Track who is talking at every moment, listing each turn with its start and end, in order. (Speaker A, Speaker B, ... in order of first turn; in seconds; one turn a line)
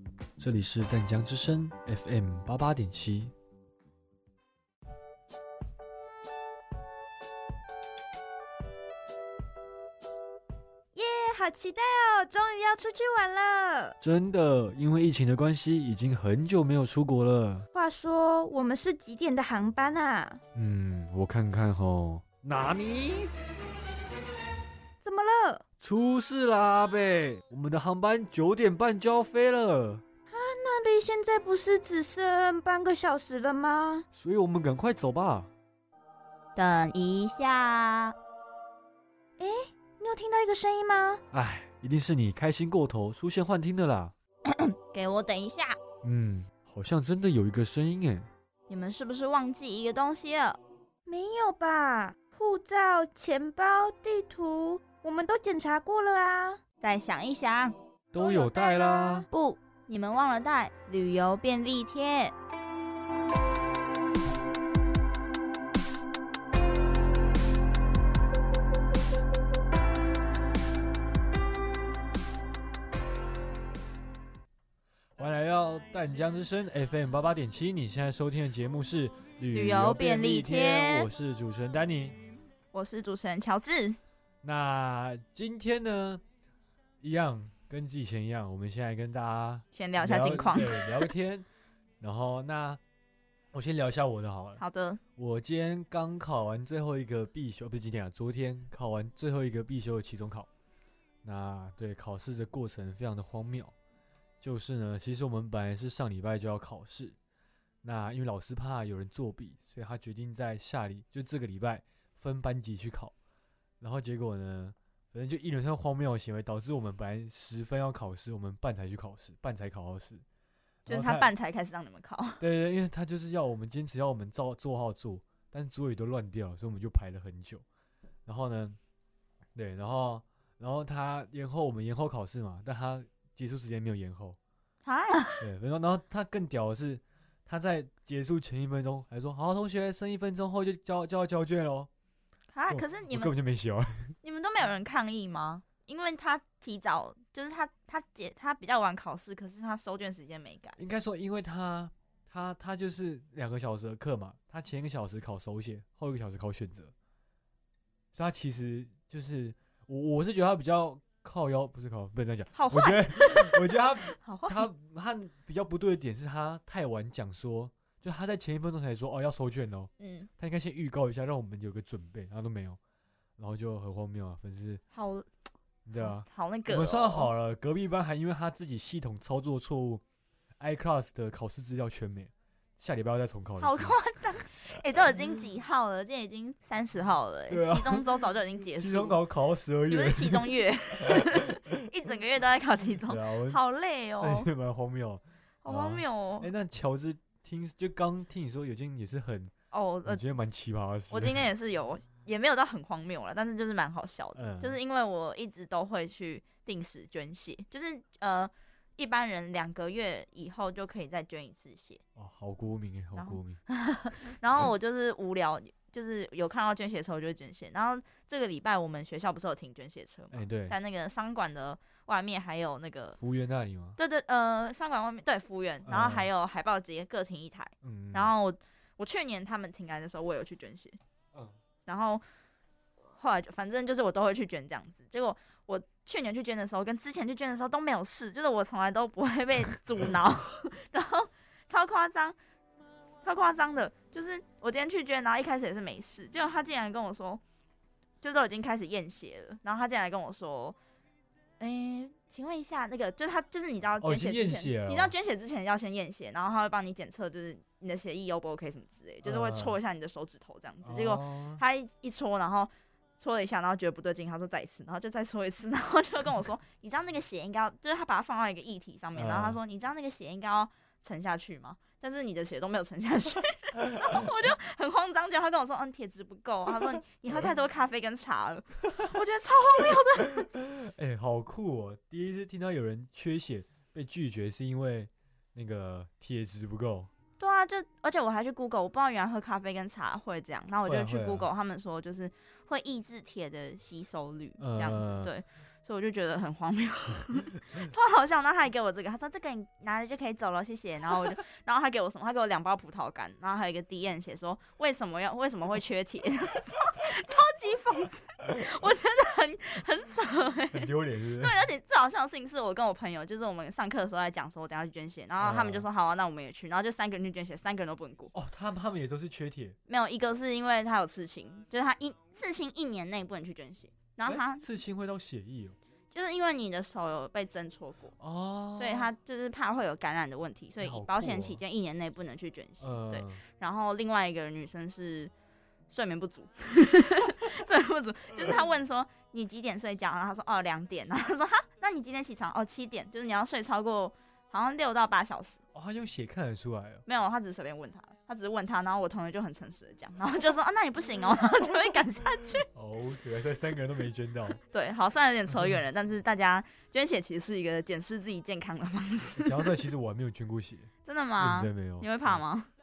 Speaker A: 0.4-3.3
Speaker B: 10.9-13.9
Speaker A: 14.0-17.6
Speaker B: 17.7-20.4
Speaker A: 20.5-23.3
Speaker B: 25.0-25.6
Speaker A: 25.8-30.0
Speaker B: 30.3-34.0
Speaker A: 34.1-35.5
Speaker C: 36.5-38.1
Speaker B: 39.4-41.2
Speaker A: 41.3-44.1
Speaker C: 44.5-45.8
Speaker A: 46.0-48.3
Speaker C: 48.7-50.6
Speaker B: 51.1-56.6
Speaker C: 56.8-57.7
Speaker A: 58.1-59.3
Speaker B: 58.2-59.2
Speaker C: 59.3-62.3
Speaker A: 75.2-82.2
Speaker C: 79.5-81.1
Speaker C: 82.7-84.0
Speaker A: 84.4-86.2
Speaker A: 87.0-91.5
Speaker C: 89.7-91.1
Speaker A: 92.0-92.8
Speaker A: 93.5-94.6
Speaker C: 94.6-95.0
Speaker A: 95.2-100.5
Speaker A: 101.2-103.7
Speaker A: 104.4-107.2
Speaker A: 107.8-113.1
Speaker A: 113.8-120.2
Speaker A: 120.8-121.3
Speaker C: 120.9-122.4
Speaker A: 122.4-127.6
Speaker A: 128.2-128.8
Speaker A: 129.5-134.4
Speaker C: 134.8-135.4
Speaker A: 135.4-141.9
Speaker C: 142.5-143.3
Speaker A: 142.7-144.1
Speaker C: 144.2-150.8
Speaker A: 150.8-156.9
Speaker A: 158.1-172.8
Speaker C: 162.5-164.7
Speaker C: 170.0-170.3
Speaker A: 173.4-174.8
Speaker C: 174.9-175.2
Speaker A: 175.8-180.0
Speaker C: 176.0-177.3
Speaker A: 180.6-184.0
Speaker C: 183.6-189.2
Speaker A: 187.5-188.1
Speaker A: 188.6-190.5
Speaker C: 189.9-194.5
Speaker A: 191.0-191.5
Speaker A: 193.1-193.6
Speaker A: 194.2-199.5
Speaker C: 195.6-196.5
Speaker C: 199.7-200.2
Speaker A: 200.1-201.4
Speaker C: 201.1-212.0
Speaker A: 204.3-204.8
Speaker A: 212.2-213.6
Speaker C: 213.1-223.2
Speaker A: 220.3-220.8
Speaker A: 223.1-224.0
Speaker C: 224.0-231.0
Speaker A: 225.8-226.3
Speaker A: 227.8-228.3
Speaker C: 231.8-232.2
Speaker C: 233.2-242.3
Speaker C: 243.2-247.4
Speaker C: 248.2-250.8
Speaker C: 251.6-280.5
Speaker A: 254.0-255.1
Speaker A: 259.2-259.8
Speaker A: 260.8-261.6
Speaker A: 269.1-269.6
Speaker A: 280.6-287.1
Speaker C: 287.4-310.9
Speaker A: 290.8-291.5
Speaker A: 294.6-295.3
Speaker A: 310.7-311.6
Speaker C: 311.4-318.3
Speaker A: 315.4-315.9
Speaker A: 318.3-319.8
Speaker C: 319.9-324.6
Speaker A: 324.2-325.8
Speaker C: 326.1-328.1
Speaker A: 328.2-329.1
Speaker C: 328.8-335.3
Speaker A: 330.8-331.6
Speaker A: 332.8-333.4
Speaker C: 335.9-345.6
Speaker A: 345.7-347.0
Speaker C: 347.1-352.6
Speaker A: 352.7-354.6
Speaker C: 354.7-359.7
Speaker A: 359.4-362.4
Speaker C: 361.0-362.7